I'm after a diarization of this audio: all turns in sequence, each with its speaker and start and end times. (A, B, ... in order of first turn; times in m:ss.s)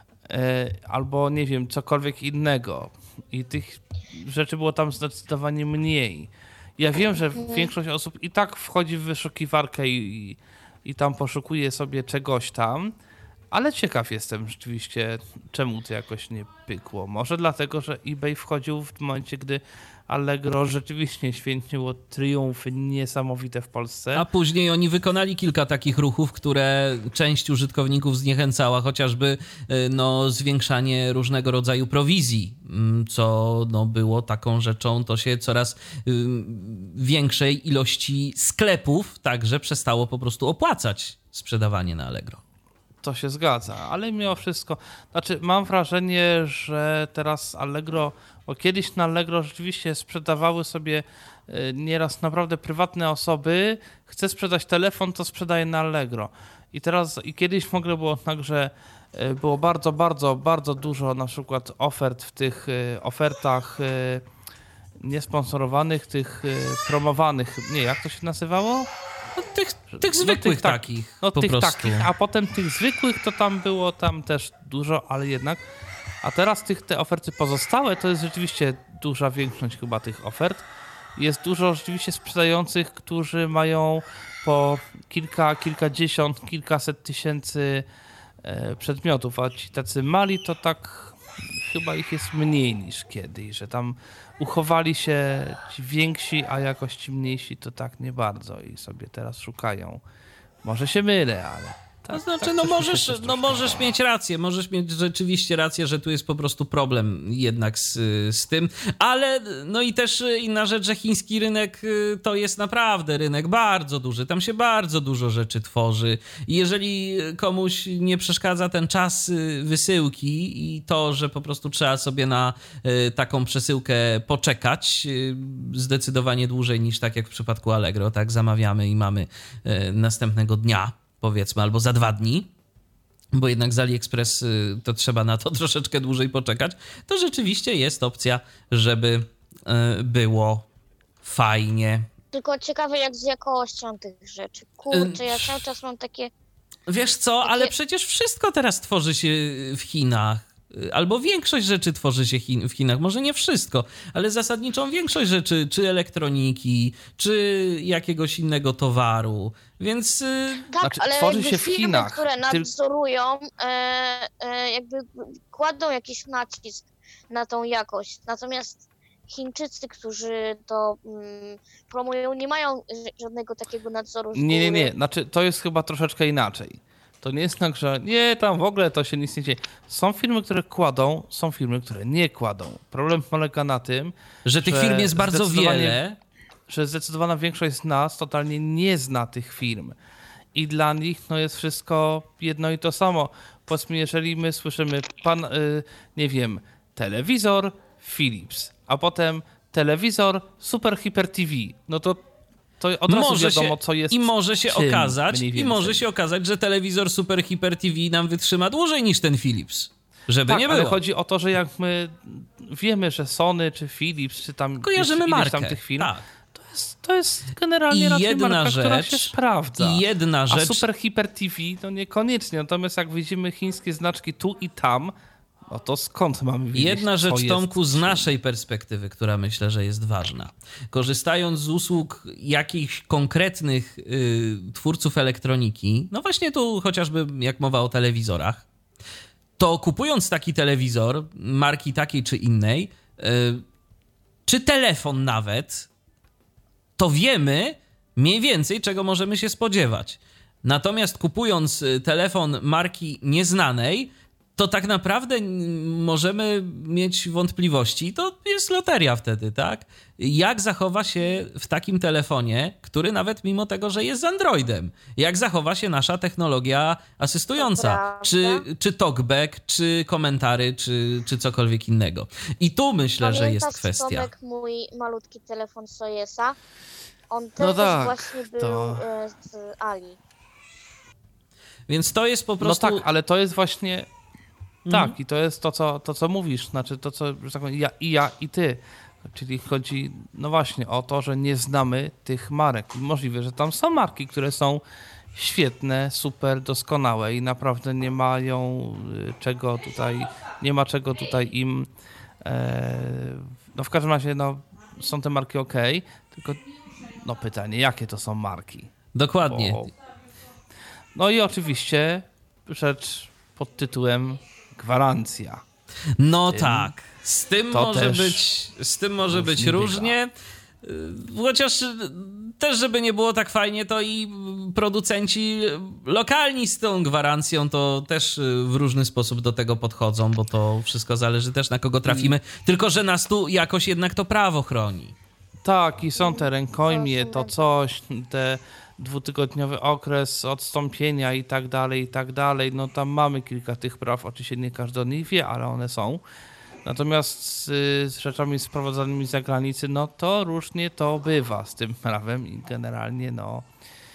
0:00.3-0:12.9 A
0:07.3-0:07.7 B
0:13.5-0:24.2 A
0:24.1-0:42.4 C
0:43.0-1:04.2 A
1:05.0-1:08.9 A
1:09.4-1:12.1 C
1:09.9-1:15.6 A
1:16.2-1:27.8 A
1:28.4-1:40.0 A
1:40.6-1:43.8 A
1:42.1-2:12.5 C
2:13.3-2:20.6 C
2:21.2-2:22.1 C
2:22.3-2:26.3 B
2:24.9-2:25.6 C
2:26.9-2:40.7 C
2:27.4-2:27.7 B
2:40.7-2:54.9 B
2:40.8-2:42.7 A
2:54.3-3:06.0 A
3:04.4-3:06.2 C
3:06.7-3:09.9 A
3:10.5-3:22.2 A
3:22.8-3:26.0 A
3:23.1-3:31.0 C
3:30.5-3:45.1 A
3:34.8-3:36.2 C
3:37.9-3:40.8 C
3:45.7-3:48.2 A
3:46.7-3:58.6 C
3:59.6-4:03.6 C
4:04.4-4:05.9 C
4:07.0-4:34.3 C
4:27.6-4:28.6 B
4:33.2-4:36.6 B
4:37.3-4:40.2 B
4:37.6-4:39.0 A
4:41.9-4:43.0 C
4:42.6-4:44.1 A
4:44.8-4:45.2 C
4:44.9-4:54.8 A
4:55.3-5:01.9 A
5:02.4-5:08.9 A
5:09.1-5:09.9 C
5:09.5-5:09.9 A
5:11.1-5:15.6 A
5:16.2-5:20.3 C
5:16.5-5:16.9 A
5:17.7-5:18.4 A
5:19.3-5:20.1 A
5:20.8-5:35.1 C
5:32.0-5:32.3 A
5:35.6-5:46.2 A
5:36.2-5:37.5 B
5:46.8-5:53.6 A